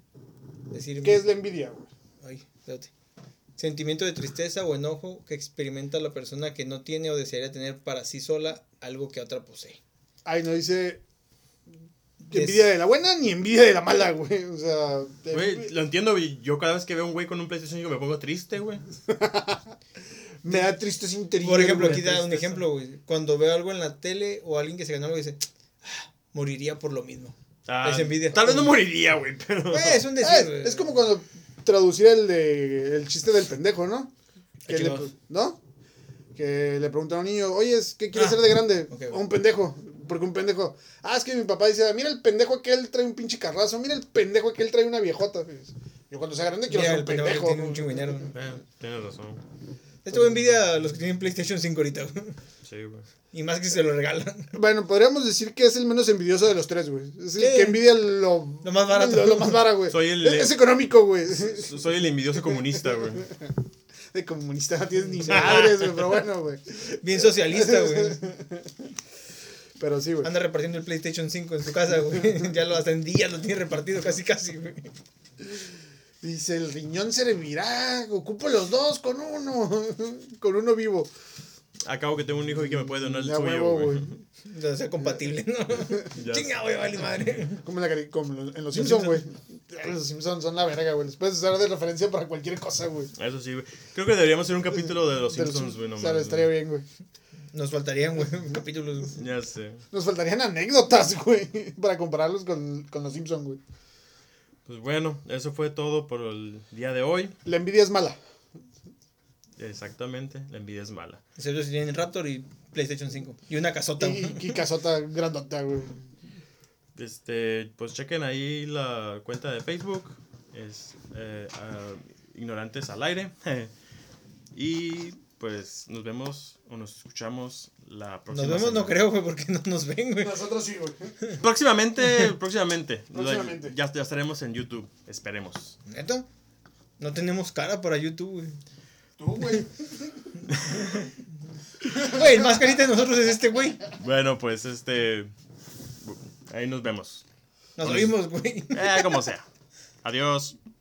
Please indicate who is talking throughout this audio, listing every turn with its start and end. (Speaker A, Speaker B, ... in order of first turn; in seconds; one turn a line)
Speaker A: 0.7-1.3
Speaker B: 1.0-1.9
Speaker A: 2.2-2.9
Speaker A: 3.6-9.8
Speaker B: 10.2-11.0
Speaker B: 12.3-15.7
Speaker A: 12.3-12.7
Speaker C: 15.3-18.8
Speaker B: 19.1-19.7
Speaker B: 20.4-22.2
Speaker A: 20.5-20.7
Speaker A: 21.4-28.7
Speaker C: 21.7-22.6
Speaker C: 27.7-30.1
Speaker A: 29.7-30.9
Speaker B: 30.2-34.1
Speaker A: 34.7-35.1
Speaker B: 34.7-35.6
Speaker B: 36.4-48.1
Speaker A: 38.1-39.2
Speaker A: 46.7-48.3
Speaker C: 48.3-49.4
Speaker A: 50.0-52.4
Speaker C: 52.6-53.1
Speaker A: 53.3-54.5
Speaker B: 54.5-61.7
Speaker A: 57.4-57.9
Speaker A: 58.6-59.7
Speaker C: 59.9-60.6
Speaker C: 61.3-63.3
Speaker B: 63.2-63.5
Speaker B: 64.1-68.7
Speaker C: 65.3-66.1
Speaker A: 67.0-68.2
Speaker B: 69.8-70.3
Speaker A: 70.2-74.9
Speaker B: 76.2-81.1
Speaker C: 81.8-84.2
Speaker B: 83.1-84.1
Speaker A: 84.4-87.6
Speaker C: 86.1-86.6
Speaker B: 87.6-93.1
Speaker A: 88.7-89.2
Speaker C: 93.2-96.5
Speaker B: 95.3-96.8
Speaker A: 97.5-99.2
Speaker C: 99.2-99.8
Speaker B: 99.9-103.6
Speaker C: 104.7-107.3
Speaker B: 107.5-108.2
Speaker C: 109.6-111.2
Speaker A: 111.4-114.6
Speaker B: 114.0-116.0
Speaker C: 117.0-123.7
Speaker C: 124.5-129.0
Speaker A: 128.3-130.4
Speaker B: 130.2-131.2
Speaker C: 131.4-135.8
Speaker B: 133.1-133.7
Speaker A: 135.9-136.3
Speaker A: 137.0-138.6
Speaker B: 139.2-140.3
Speaker C: 140.5-140.9
Speaker A: 141.9-143.8
Speaker B: 142.0-142.4
Speaker C: 144.0-145.3
Speaker C: 146.0-147.2
Speaker A: 147.8-149.3
Speaker C: 147.8-148.2
Speaker C: 148.7-149.4
Speaker C: 150.0-150.6